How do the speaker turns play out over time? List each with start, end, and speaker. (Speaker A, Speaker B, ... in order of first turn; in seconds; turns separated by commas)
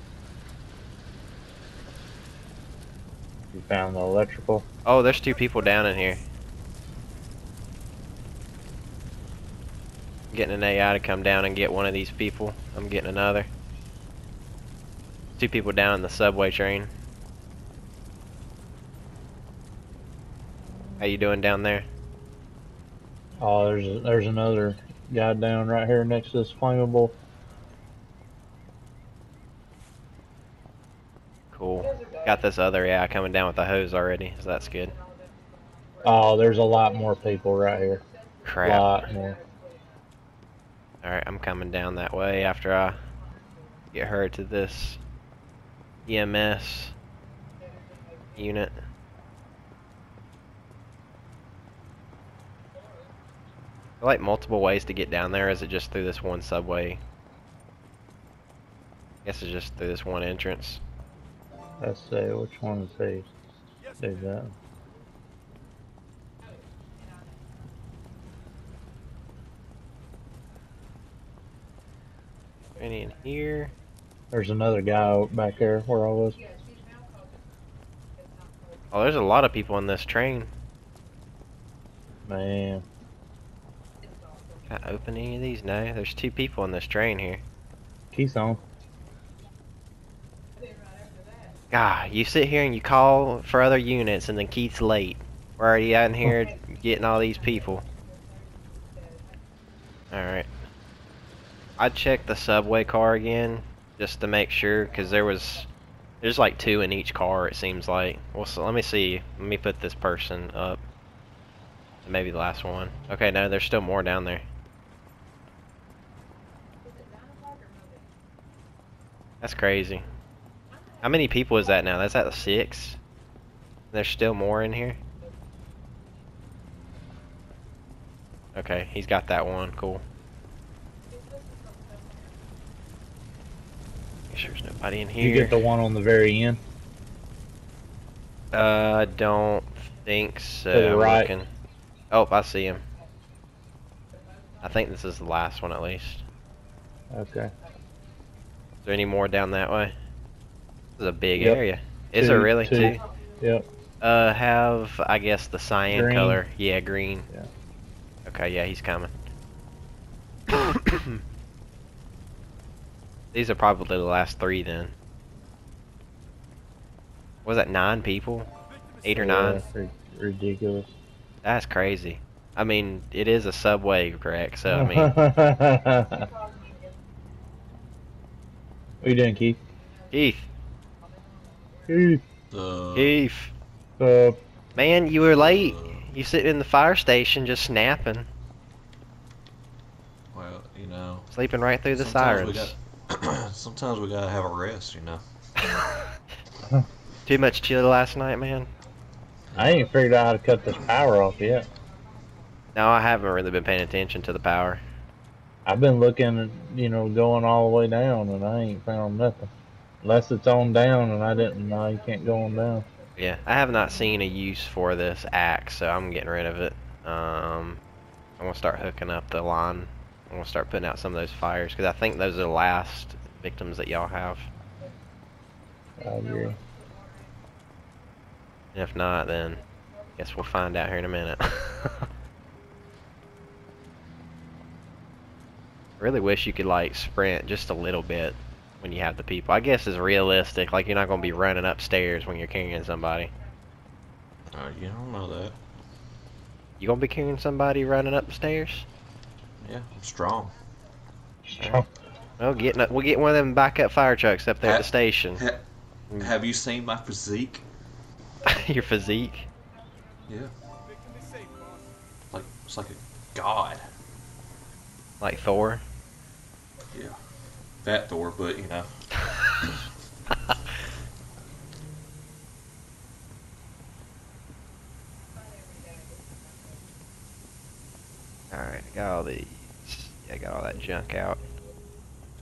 Speaker A: 3.5-4.7, Speaker B: 4.8-6.2, Speaker B: 10.3-13.5, Speaker B: 15.4-16.9, Speaker B: 21.0-21.9, Speaker A: 23.4-27.1, Speaker B: 31.5-35.0, Speaker A: 36.0-38.0, Speaker B: 38.4-38.9, Speaker A: 38.6-39.4, Speaker B: 41.0-43.0, Speaker B: 43.9-45.0, Speaker B: 46.0-46.9, Speaker B: 48.3-48.7, Speaker B: 54.0-57.0, Speaker B: 59.2-60.8, Speaker A: 61.8-63.3, Speaker A: 64.0-64.5, Speaker B: 72.8-73.7, Speaker A: 74.3-76.4, Speaker B: 78.9-80.5, Speaker A: 82.2-82.8, Speaker B: 84.7-87.4, Speaker A: 88.1-88.6, Speaker B: 91.7-97.8, Speaker B: 100.1-100.5, Speaker B: 101.8-105.7, Speaker B: 106.2-110.8, Speaker B: 112.0-114.5, Speaker B: 119.4-120.0, Speaker B: 121.0-123.0, Speaker B: 123.9-125.0, Speaker B: 128.5-130.0, Speaker B: 134.3-135.6, Speaker A: 135.2-136.6, Speaker B: 138.5-141.5, Speaker A: 140.7-141.3, Speaker B: 142.1-142.8, Speaker B: 144.6-146.2, Speaker A: 147.1-147.5, Speaker B: 148.8-149.9, Speaker B: 151.0-153.0, Speaker A: 152.1-153.6, Speaker B: 154.0-157.3, Speaker A: 155.9-156.4, Speaker B: 158.2-159.1, Speaker B: 160.5-161.2, Speaker B: 163.3-164.9, Speaker B: 167.4-168.5, Speaker B: 169.0-169.6, Speaker A: 169.1-170.9, Speaker B: 171.4-175.1, Speaker A: 174.7-176.3, Speaker A: 179.0-179.6, Speaker B: 180.1-180.5, Speaker A: 181.9-182.2, Speaker C: 182.5-183.2, Speaker B: 182.9-183.5, Speaker A: 184.0-184.4, Speaker B: 184.8-188.3, Speaker C: 185.3-186.1, Speaker C: 190.3-191.3, Speaker B: 191.3-192.8, Speaker C: 191.9-195.2, Speaker B: 197.2-198.7, Speaker C: 199.5-199.8, Speaker A: 199.6-201.7, Speaker B: 202.7-204.8, Speaker A: 205.7-209.5, Speaker A: 210.0-212.8, Speaker B: 213.2-217.8, Speaker B: 218.4-224.5, Speaker A: 226.0-226.6, Speaker B: 228.7-229.6, Speaker B: 230.2-232.0, Speaker B: 236.0-243.3, Speaker C: 244.5-245.6, Speaker B: 246.8-248.8, Speaker C: 249.6-250.6, Speaker A: 251.4-251.9, Speaker B: 252.4-255.4, Speaker C: 254.6-255.6, Speaker C: 256.2-257.6, Speaker B: 258.4-259.4, Speaker C: 260.3-260.5, Speaker C: 262.3-263.8, Speaker B: 265.2-265.8, Speaker C: 266.9-267.2, Speaker C: 267.8-268.9, Speaker B: 269.2-269.5, Speaker B: 270.3-270.6, Speaker B: 278.5-281.4